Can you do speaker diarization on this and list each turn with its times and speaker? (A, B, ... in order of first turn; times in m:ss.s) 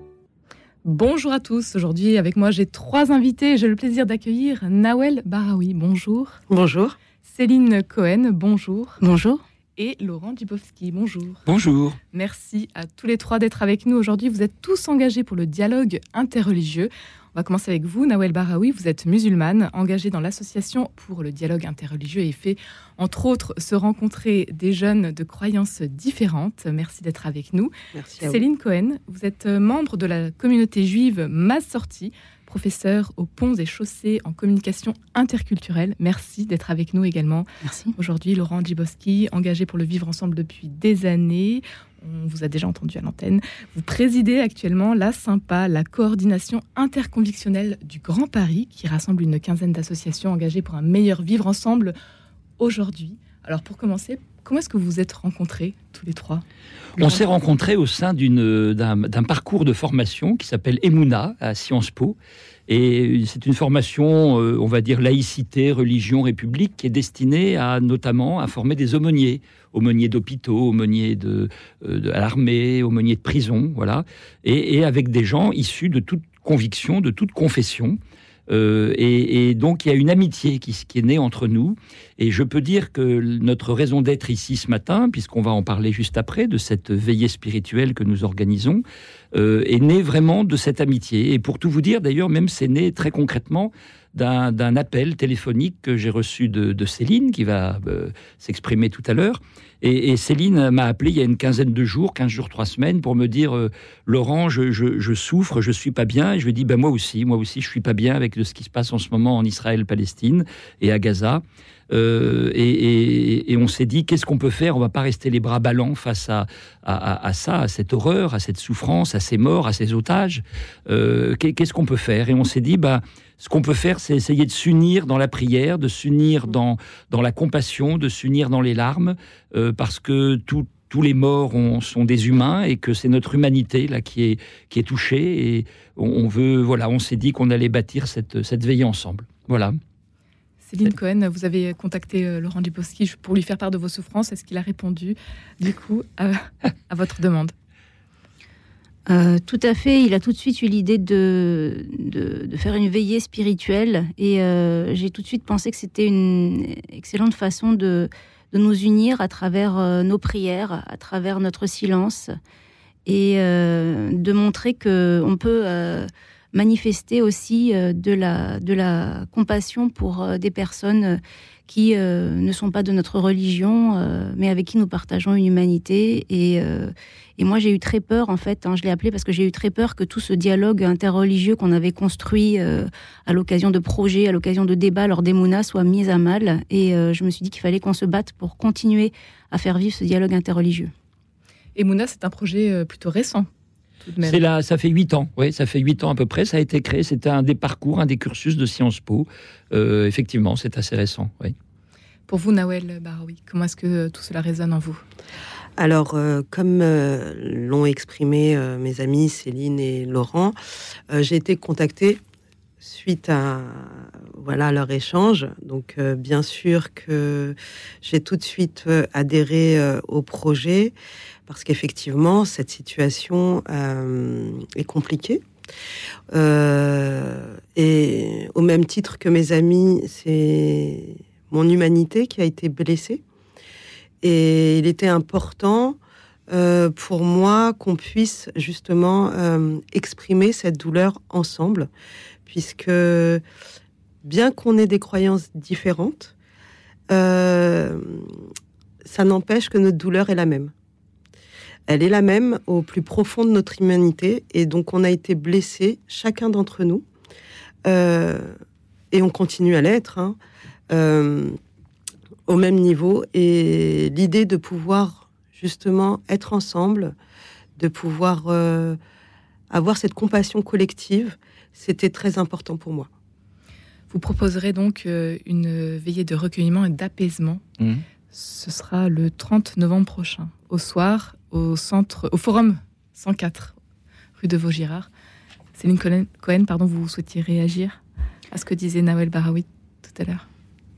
0:00.8-0:06.4 A
0:06.5-0:07.0 B
0:07.3-0:09.0 A
0:09.0-0:09.4 C
0:09.8-0:11.5 A
0:11.5-0:12.0 D
0:12.0-0:51.9 A
0:27.9-0:28.4 B
0:37.6-0:38.0 C
0:52.6-0:56.4 A
0:57.0-1:02.2 D
1:02.7-1:18.0 D
1:18.5-2:19.8 D
2:20.6-2:27.5 A
2:29.1-2:42.3 C
2:43.1-3:10.9 C
3:11.8-3:13.5 A
3:14.0-3:14.4 A
3:14.2-3:21.5 D
3:22.3-3:25.0 A
3:25.8-3:30.6 B
3:31.1-3:32.2 B
3:32.8-3:41.0 B
3:41.5-3:45.4 B
3:46.3-3:53.2 B
3:54.2-3:56.0 B
3:56.5-4:01.9 B
4:02.5-4:03.4 B
4:04.2-4:06.3 B
4:07.1-4:08.3 B
4:09.0-4:10.7 B
4:11.9-4:17.0 B
4:17.8-4:18.5 B
4:19.1-4:20.4 B
4:20.9-4:21.6 B
4:22.5-4:27.2 B
4:27.8-4:29.0 B
4:29.7-4:33.1 B
4:34.1-4:37.6 A
4:37.8-4:38.0 D
4:38.3-4:43.8 A
4:44.4-4:45.1 A
4:45.8-4:48.0 A
4:48.5-4:50.4 A